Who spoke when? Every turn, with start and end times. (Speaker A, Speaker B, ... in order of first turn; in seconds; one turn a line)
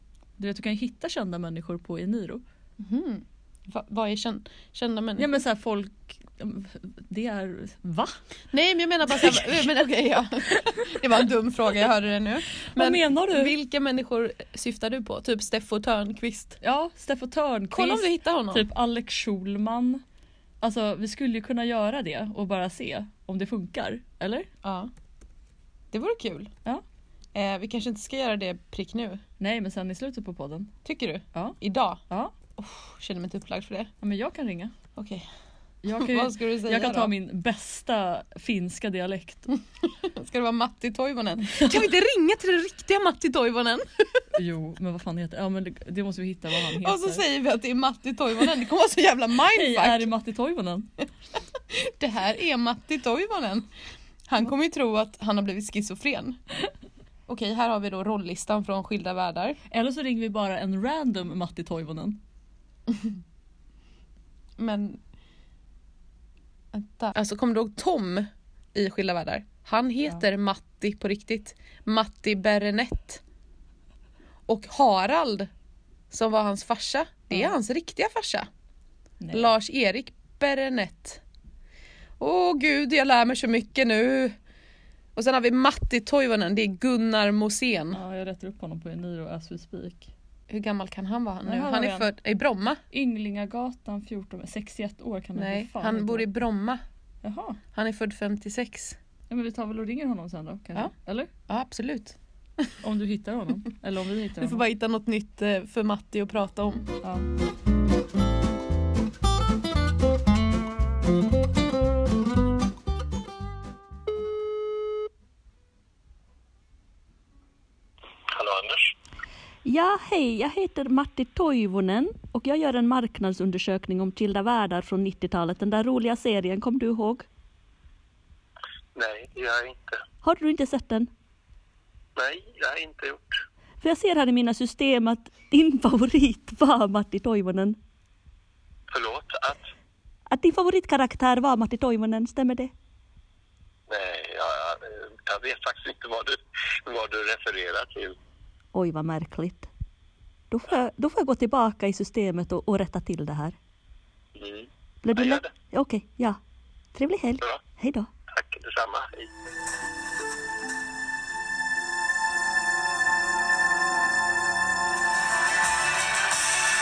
Speaker A: 0.4-2.4
Speaker B: 2.8-5.3
Speaker A: 5.2-8.1
Speaker B: 8.5-16.6
Speaker A: 9.1-9.5
Speaker A: 12.7-13.5
Speaker A: 16.6-20.0
Speaker B: 17.7-18.6
Speaker A: 20.6-24.5
Speaker B: 24.6-24.9
Speaker B: 25.9-26.5
Speaker B: 27.3-29.2
Speaker A: 29.4-30.7
Speaker B: 30.8-32.0
Speaker B: 32.6-33.9
Speaker A: 34.0-34.7
Speaker B: 35.0-35.2
Speaker A: 35.8-39.5
Speaker B: 35.9-37.1
Speaker B: 39.8-44.2
Speaker A: 41.5-41.9
Speaker A: 44.3-47.2
Speaker B: 46.8-50.0
Speaker A: 49.5-50.9
Speaker B: 51.7-53.6
Speaker B: 54.3-56.4
Speaker B: 57.3-59.6
Speaker A: 59.7-62.2
Speaker B: 64.6-65.0
Speaker B: 66.7-73.2
Speaker B: 74.5-75.5
Speaker B: 76.1-78.5
Speaker A: 77.3-77.5
Speaker A: 79.2-79.5
Speaker B: 79.3-81.2
Speaker B: 82.2-84.3
Speaker B: 85.1-88.0
Speaker A: 87.9-90.1
Speaker B: 90.5-92.8
Speaker A: 91.5-92.1
Speaker A: 92.9-96.3
Speaker B: 95.3-96.8
Speaker A: 97.2-97.6
Speaker B: 97.7-99.0
Speaker A: 99.3-101.3
Speaker B: 101.5-102.2
Speaker A: 102.8-104.6
Speaker B: 104.4-106.8
Speaker C: 118.3-118.9
Speaker D: 119.6-127.2
Speaker C: 128.9-130.0
Speaker D: 130.2-131.1
Speaker C: 132.2-133.2
Speaker D: 133.8-137.8
Speaker C: 138.9-139.6
Speaker D: 140.3-142.7
Speaker C: 143.9-148.2
Speaker D: 148.7-149.7
Speaker D: 150.5-153.6
Speaker C: 154.3-155.5
Speaker D: 155.0-156.4
Speaker D: 156.9-158.1
Speaker C: 158.3-159.3